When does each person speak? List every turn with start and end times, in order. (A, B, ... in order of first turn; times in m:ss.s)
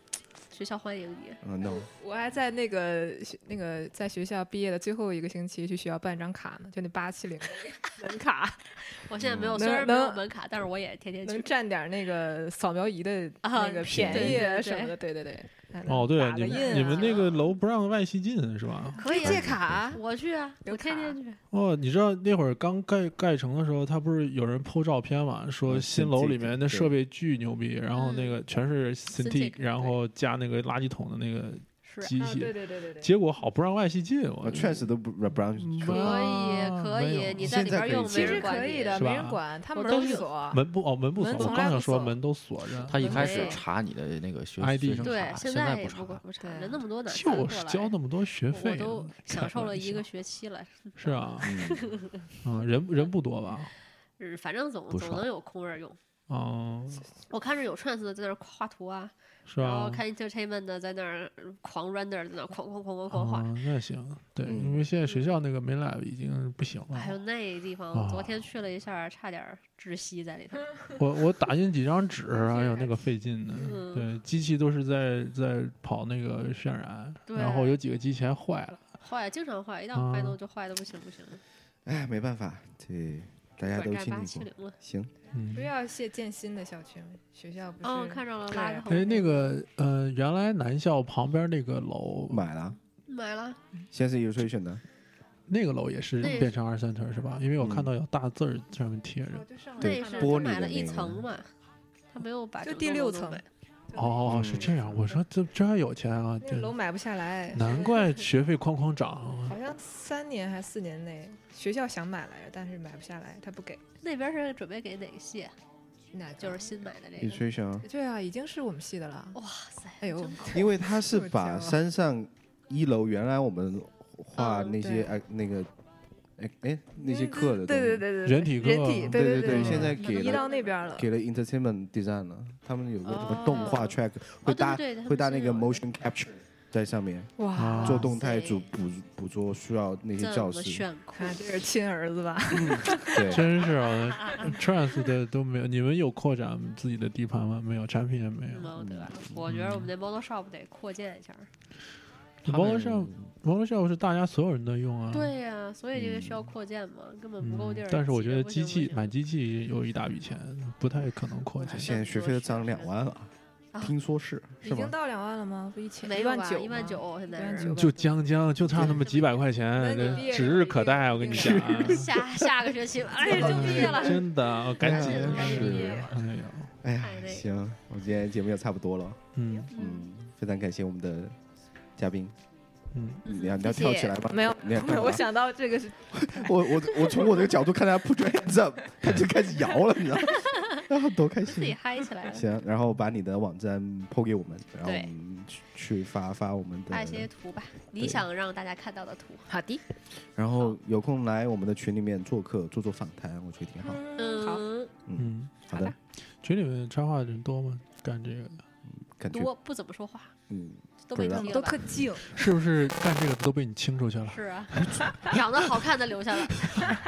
0:00.5-0:01.4 A
0:01.4-0:01.9 B
0:01.6-0:08.8 C
0:09.0-0:11.5 A
0:09.2-0:09.6 D
0:09.6-0:10.3 C
0:11.2-0:17.3 C
0:13.4-0:15.0 A
0:15.9-0:19.0 E
0:16.4-0:17.4 A
0:19.0-0:20.0 C
0:19.0-0:21.4 A
0:19.0-0:19.8 D
0:20.6-0:21.2 C
0:21.5-0:34.9 E
0:25.6-0:26.9 B
0:28.0-0:28.4 A
0:29.1-0:30.0 A
0:31.8-0:32.1 A
0:32.2-0:33.1 C
0:34.4-0:36.3 B
0:35.6-0:37.8 E
0:35.9-0:39.0 A
0:37.4-0:38.7 B
0:38.1-0:40.6 C
0:39.0-0:43.4 E
0:39.7-0:40.3 A
0:41.1-0:42.2 C
0:41.4-0:41.9 A
0:42.8-0:46.2 D
0:42.9-0:43.6 A
0:43.0-0:43.6 C
0:44.6-0:45.2 E
0:45.0-0:48.0 A
0:46.4-0:46.8 C
0:47.1-0:50.0 E
0:48.5-0:52.3 A
0:51.0-0:51.6 E
0:51.4-0:51.8 B
0:52.4-0:53.7 E
0:54.2-0:56.0 A
0:54.9-0:55.3 D
0:56.3-0:57.1 E
0:57.3-1:03.5 A
0:59.5-1:00.0 E
1:03.1-1:07.2 E
1:04.4-1:04.9 B
1:06.9-1:10.8 A
1:07.9-1:08.4 E
1:11.0-1:18.8 E
1:12.5-1:12.9 A
1:13.5-1:14.0 A
1:17.3-1:17.8 A
1:19.0-1:21.4 A
1:19.9-1:20.4 E
1:21.9-1:25.1 B
1:23.6-1:24.8 A
1:25.3-1:25.7 E
1:25.5-1:29.2 C
1:27.8-1:29.6 A
1:28.9-1:32.4 E
1:32.3-1:32.8 B
1:33.0-1:33.6 A
1:33.9-1:34.8 B
1:35.5-1:39.4 E
1:36.2-1:36.6 A
1:37.6-1:37.9 B
1:39.3-1:40.6 C
1:39.8-1:41.5 A
1:39.8-1:41.3 B
1:42.1-1:43.4 A
1:42.6-1:45.2 C
1:44.0-1:46.8 E
1:44.3-1:44.7 B
1:46.4-1:48.1 C
1:47.5-1:49.6 E
1:49.5-1:53.8 C
1:54.0-1:55.5 A
1:56.1-1:56.9 C
1:56.4-1:57.4 A
1:57.2-1:57.9 B
1:57.8-1:59.4 C
1:59.3-2:00.7 A
2:00.0-2:01.8 C
2:00.5-2:05.7 B
2:04.4-2:04.8 A
2:04.8-2:05.1 C
2:06.4-2:08.0 B
2:07.0-2:11.1 C
2:08.2-2:10.0 E
2:09.1-2:20.8 B
2:09.7-2:11.0 A
2:13.0-2:15.8 A
2:17.4-2:18.1 C
2:17.6-2:18.1 E
2:18.2-2:18.7 A
2:20.2-2:21.4 A
2:21.1-2:23.2 C
2:22.5-2:23.5 B
2:23.2-2:28.7 E
2:23.6-2:25.1 A
2:28.5-2:31.5 A
2:28.8-2:29.2 B
2:29.5-2:29.9 E
2:32.4-2:35.3 E
2:32.4-2:32.7 D
2:35.1-2:39.1 A
2:36.0-2:36.5 B
2:37.4-2:42.0 E
2:41.6-2:42.9 A
2:41.7-2:44.9 B
2:44.6-2:48.1 C
2:46.0-2:47.8 A
2:47.7-2:52.4 E
2:48.7-2:49.0 B
2:48.7-2:50.6 A
2:49.7-2:52.0 C
2:51.4-2:56.2 A
2:53.2-2:56.7 E
2:53.4-2:54.1 C
2:54.8-2:56.0 B
2:55.1-2:56.1 C
2:56.8-2:59.2 B
2:57.0-2:57.5 A
2:59.4-2:59.7 E
2:59.7-3:00.1 A
2:59.7-3:01.4 B
3:02.0-3:02.4 B
3:02.9-3:03.2 E
3:03.2-3:05.2 B
3:03.2-3:03.6 A
3:03.6-3:07.3 C
3:06.1-3:17.3 B
3:10.4-3:10.8 A
3:11.4-3:12.5 A
3:14.8-3:15.1 A
3:16.9-3:19.5 A
3:18.0-3:18.2 B
3:19.5-3:19.8 C
3:20.4-3:24.0 B
3:20.5-3:20.8 A
3:23.8-3:24.6 C
3:24.2-3:25.0 A
3:25.0-3:26.0 B
3:25.2-3:25.6 E
3:26.4-3:28.6 E
3:28.9-3:29.5 B
3:29.3-3:30.3 A
3:30.5-3:31.5 B
3:31.0-3:31.8 A
3:31.4-3:32.2 C
3:32.2-3:35.3 E
3:34.3-3:37.0 A
3:36.5-3:36.8 E